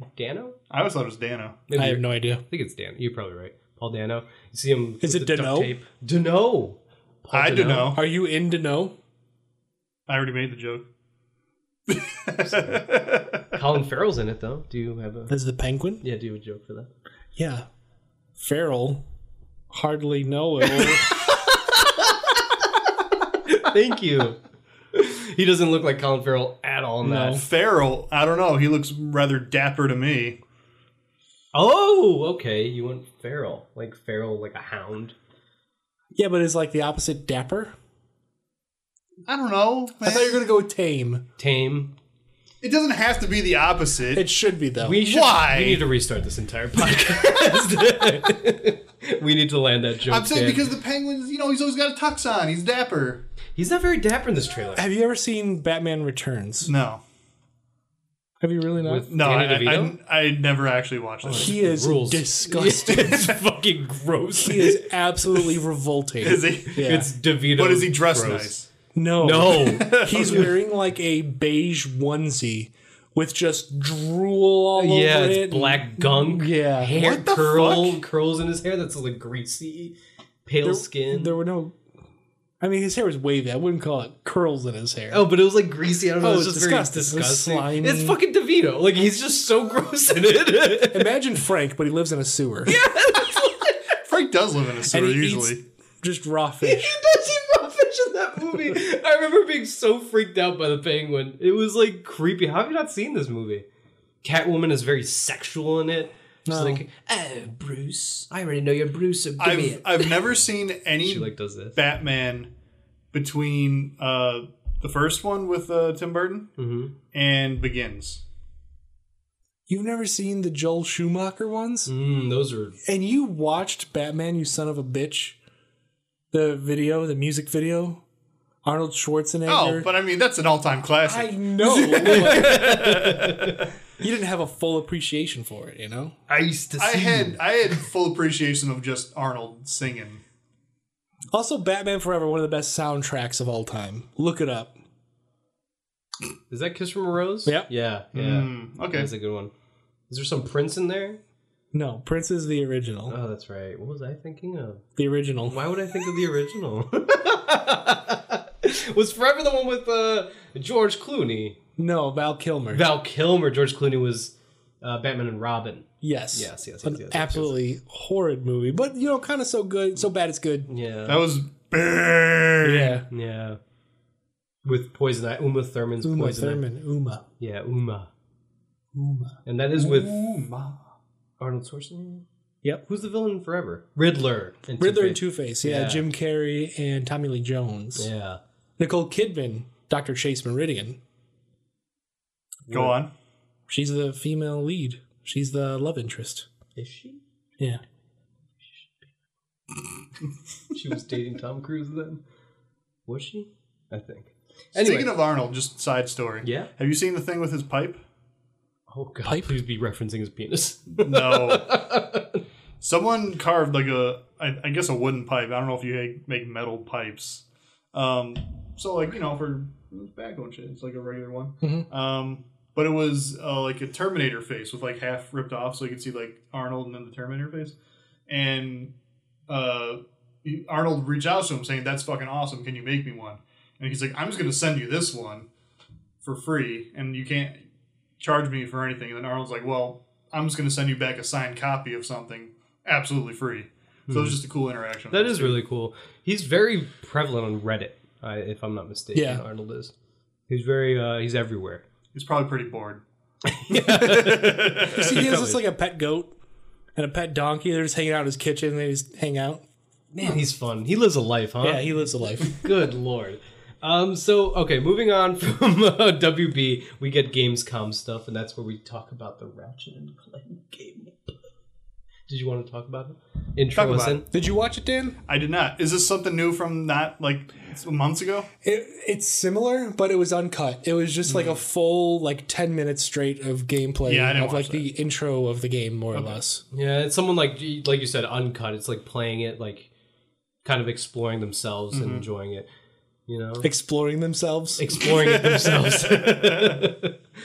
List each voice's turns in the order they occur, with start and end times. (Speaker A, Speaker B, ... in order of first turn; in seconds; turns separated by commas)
Speaker A: 0.1-0.6, Speaker B: 0.7-1.6, Speaker A: 1.7-8.0, Speaker C: 1.8-2.4, Speaker C: 5.0-5.7, Speaker B: 7.3-8.0, Speaker C: 7.9-8.9, Speaker B: 10.1-10.9, Speaker B: 11.9-13.4, Speaker A: 12.4-12.9, Speaker A: 13.5-15.3, Speaker C: 15.3-16.0, Speaker A: 16.0-16.9, Speaker C: 17.4-17.6, Speaker C: 18.4-19.0, Speaker C: 19.7-21.2, Speaker A: 20.8-22.8, Speaker A: 23.4-24.4, Speaker A: 24.9-27.4, Speaker C: 27.0-27.4, Speaker B: 27.3-30.4, Speaker A: 31.5-35.2, Speaker C: 36.1-37.7, Speaker B: 39.3-40.4, Speaker C: 40.0-41.2, Speaker A: 41.4-41.9, Speaker B: 42.6-44.3, Speaker C: 44.1-45.0, Speaker A: 44.8-50.6, Speaker B: 45.0-45.9, Speaker B: 50.1-53.2, Speaker A: 53.6-54.9, Speaker C: 54.8-56.7, Speaker B: 56.6-57.0, Speaker C: 58.4-59.1, Speaker A: 58.8-60.0, Speaker B: 59.1-61.6, Speaker A: 61.2-64.8, Speaker C: 61.3-63.3, Speaker C: 64.4-67.1, Speaker B: 66.2-67.0, Speaker A: 66.7-68.5, Speaker B: 67.6-68.7, Speaker C: 68.9-77.0, Speaker A: 69.2-70.5, Speaker B: 69.6-70.6, Speaker A: 74.8-81.4, Speaker B: 76.9-78.0, Speaker C: 80.6-81.8, Speaker C: 82.6-85.2, Speaker A: 85.1-91.1, Speaker C: 86.2-88.2, Speaker C: 90.9-92.8, Speaker A: 92.7-94.0, Speaker B: 94.1-95.6, Speaker C: 94.9-96.9, Speaker A: 96.6-103.7, Speaker A: 104.2-110.2, Speaker C: 106.5-106.8, Speaker B: 109.4-112.5, Speaker A: 111.0-111.8, Speaker B: 113.1-116.5, Speaker A: 116.6-116.9, Speaker B: 117.1-118.2, Speaker C: 119.7-121.9, Speaker A: 121.9-122.8, Speaker C: 122.8-125.4, Speaker C: 126.3-128.0, Speaker C: 128.6-129.9, Speaker B: 129.5-133.5, Speaker C: 131.0-133.2, Speaker A: 132.0-133.7, Speaker C: 134.0-136.2, Speaker A: 136.3-137.4, Speaker B: 136.7-140.2, Speaker C: 141.3-144.7, Speaker A: 146.5-149.5, Speaker B: 148.1-149.1, Speaker A: 150.1-151.2, Speaker C: 151.7-153.2, Speaker A: 153.1-154.8, Speaker C: 155.0-155.6, Speaker A: 155.5-161.6, Speaker C: 161.8-162.8, Speaker A: 162.7-167.6, Speaker C: 166.0-170.7, Speaker A: 170.7-171.2, Speaker B: 171.1-173.0, Speaker C: 172.6-173.1, Speaker A: 173.1-173.6, Speaker A: 174.6-176.6, Speaker C: 176.0-177.3, Speaker A: 177.4-178.1, Speaker C: 178.9-179.3, Speaker A: 179.5-180.2, Speaker B: 179.8-180.8, Speaker A: 181.4-182.3, Speaker A: 182.8-186.1, Speaker C: 184.8-188.1, Speaker A: 188.0-188.4, Speaker C: 188.8-191.0, Speaker A: 192.7-193.0, Speaker B: 192.7-193.1, Speaker C: 193.7-196.5, Speaker A: 196.8-197.2, Speaker A: 200.7-202.2, Speaker A: 203.1-205.1, Speaker B: 204.8-208.0, Speaker A: 206.4-206.7, Speaker A: 208.9-212.4, Speaker C: 209.2-209.6, Speaker B: 211.0-211.8, Speaker B: 212.8-227.8, Speaker C: 221.6-221.9, Speaker B: 228.3-228.9, Speaker B: 229.5-235.5, Speaker B: 236.2-237.6, Speaker B: 238.2-245.6, Speaker A: 244.1-244.4, Speaker A: 245.1-249.9, Speaker C: 249.1-249.4, Speaker A: 250.5-251.8, Speaker B: 252.1-253.0, Speaker A: 253.5-255.6, Speaker B: 253.7-255.2, Speaker C: 254.8-256.3, Speaker C: 257.0-259.6, Speaker A: 260.1-261.9, Speaker C: 261.6-262.6, Speaker A: 262.4-271.4, Speaker A: 272.3-274.2, Speaker B: 273.8-274.2, Speaker C: 274.3-275.2, Speaker B: 275.3-278.5, Speaker C: 278.6-286.6, Speaker B: 281.2-281.6, Speaker B: 284.1-284.9, Speaker B: 286.1-286.4, Speaker A: 286.7-289.9, Speaker A: 290.6-292.7, Speaker B: 291.9-292.3, Speaker A: 293.3-293.7, Speaker C: 293.6-294.9, Speaker A: 294.8-297.2, Speaker B: 295.1-296.9